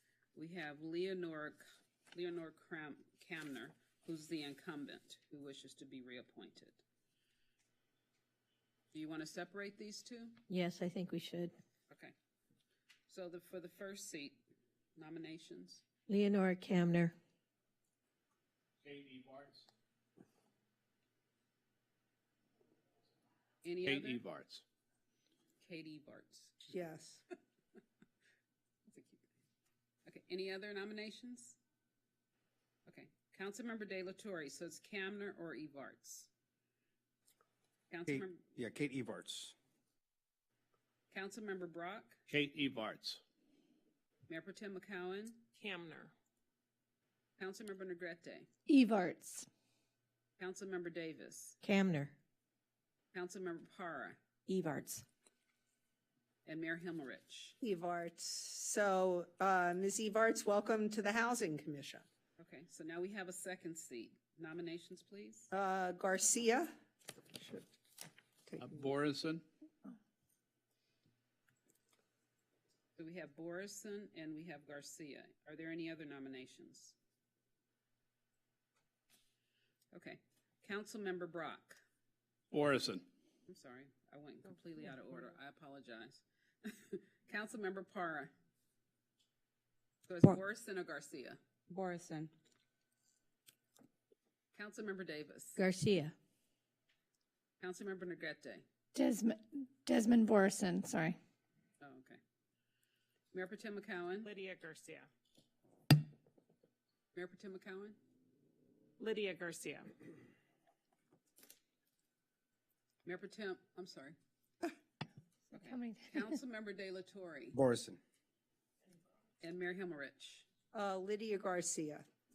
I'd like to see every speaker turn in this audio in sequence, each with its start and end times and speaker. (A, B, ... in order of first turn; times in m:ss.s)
0:00.3-0:06.8 A
0:08.9-0:10.4 A
0:10.5-0:11.5 B
0:13.1-0:14.4 A
0:15.0-0:15.8 A
0:16.1-0:17.1 B
0:18.8-0:19.7 C
0:23.6-0:24.2 A
0:23.8-0:24.6 C
0:25.6-0:26.7 A
0:26.7-0:27.2 D
0:28.9-0:29.2 A
0:30.0-0:31.6 A
0:32.8-0:36.3 A
0:37.9-0:38.4 A
0:38.1-0:39.5 E
0:41.1-0:42.2 A
0:42.3-0:43.2 C
0:44.3-0:45.4 A
0:45.6-0:46.1 F
0:47.4-0:48.5 A
0:48.7-0:49.4 G
0:50.4-0:51.6 A
0:51.6-0:52.1 B
0:53.1-0:54.2 A
0:54.5-0:55.0 B
0:56.4-0:57.6 A
0:57.6-1:02.0 D
1:02.4-1:05.5 A
1:05.5-1:06.7 D
1:07.4-1:07.6 D
1:08.5-1:08.9 D
1:08.6-1:09.4 C
1:13.0-1:16.9 A
1:19.9-1:21.8 A
1:22.5-1:23.0 C
1:23.5-1:28.3 A
1:30.0-1:31.4 A
1:34.5-1:35.6 A
1:35.6-1:36.1 B
1:37.6-1:38.6 A
1:38.9-1:41.2 G
1:41.8-1:42.2 A
1:43.3-1:44.3 A
1:44.2-1:45.1 F
1:47.1-1:48.0 A
1:49.0-1:49.9 F
1:53.0-1:54.2 A
1:55.5-1:57.6 A
1:57.5-1:58.0 E
1:59.4-2:00.4 A
2:00.7-2:02.0 D